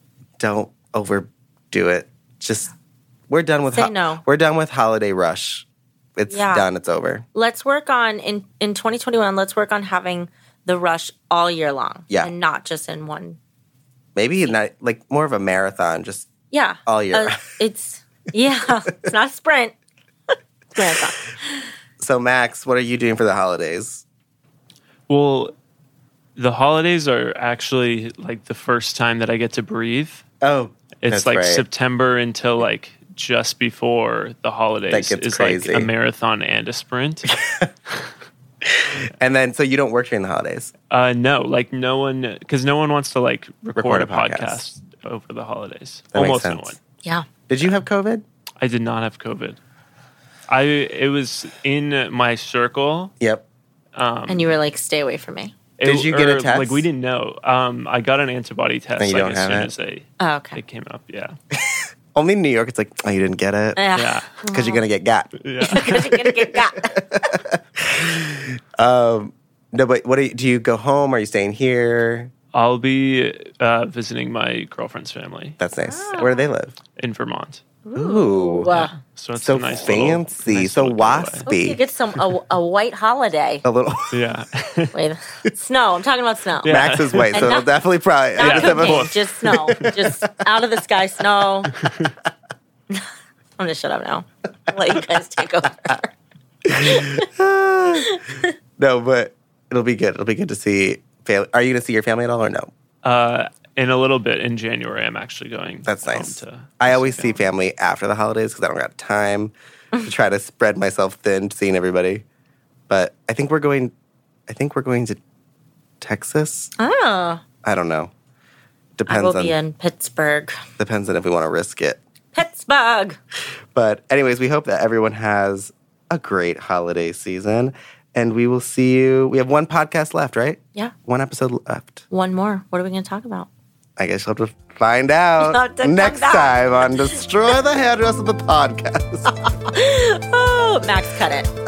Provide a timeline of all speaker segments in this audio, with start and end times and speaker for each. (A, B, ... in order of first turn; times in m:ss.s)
0:00.4-0:02.7 A
0:03.3-0:07.3 A
0:03.7-0:04.2 B
0:06.3-0:06.7 B
0:07.3-0:13.4 B
0:14.2-0:16.3 A
0:16.5-0:19.8 B
0:16.9-0:17.4 A
0:20.3-0:21.6 B
0:22.0-0:24.0 A
0:25.1-0:25.5 C
0:26.4-0:30.2 C
0:30.4-0:31.6 A
0:31.0-0:37.4 C
0:34.9-0:35.9 A
0:37.4-0:37.7 A
0:38.6-0:40.7 A
0:40.9-0:46.8 C
0:43.8-0:44.6 A
0:46.1-0:46.8 A
0:47.5-0:48.2 A
0:48.6-0:49.6 C
0:50.5-0:53.1 C
0:53.2-0:53.4 A
0:53.9-0:54.5 C
0:54.3-0:55.6 B
0:55.8-1:01.4 C
0:55.8-0:56.8 A
0:59.0-0:59.7 A
1:00.2-1:00.6 B
1:01.5-1:03.8 A
1:03.8-1:04.8 B
1:04.0-1:04.3 C
1:04.5-1:12.3 A
1:05.4-1:06.1 C
1:05.6-1:07.3 B
1:12.5-1:15.6 C
1:15.6-1:16.8 A
1:15.8-1:16.5 B
1:17.0-1:17.6 C
1:17.8-1:18.9 B
1:18.0-1:18.7 A
1:18.7-1:21.5 C
1:19.4-1:21.8 A
1:21.5-1:23.6 B
1:23.6-1:24.2 A
1:24.1-1:25.0 C
1:24.9-1:26.8 B
1:26.6-1:27.6 C
1:26.6-1:30.2 A
1:27.3-1:27.7 B
1:28.4-1:31.7 B
1:28.4-1:30.0 C
1:31.8-1:32.1 C
1:32.9-1:36.1 B
1:36.6-1:38.2 A
1:36.7-1:37.3 B
1:38.0-1:38.5 B
1:38.8-1:42.7 A
1:43.0-1:47.4 C
1:45.8-1:49.5 A
1:50.0-1:52.2 A
1:52.9-1:53.9 A
1:54.5-1:55.2 A
1:56.0-1:56.7 A
1:56.8-1:57.4 B
1:57.6-1:58.1 A
1:59.0-1:59.6 A
1:59.1-2:00.6 B
2:00.8-2:02.0 A
2:02.3-2:03.2 B
2:03.7-2:12.0 A
2:12.1-2:13.5 B
2:14.0-2:19.3 A
2:15.4-2:17.2 B
2:19.5-2:21.5 B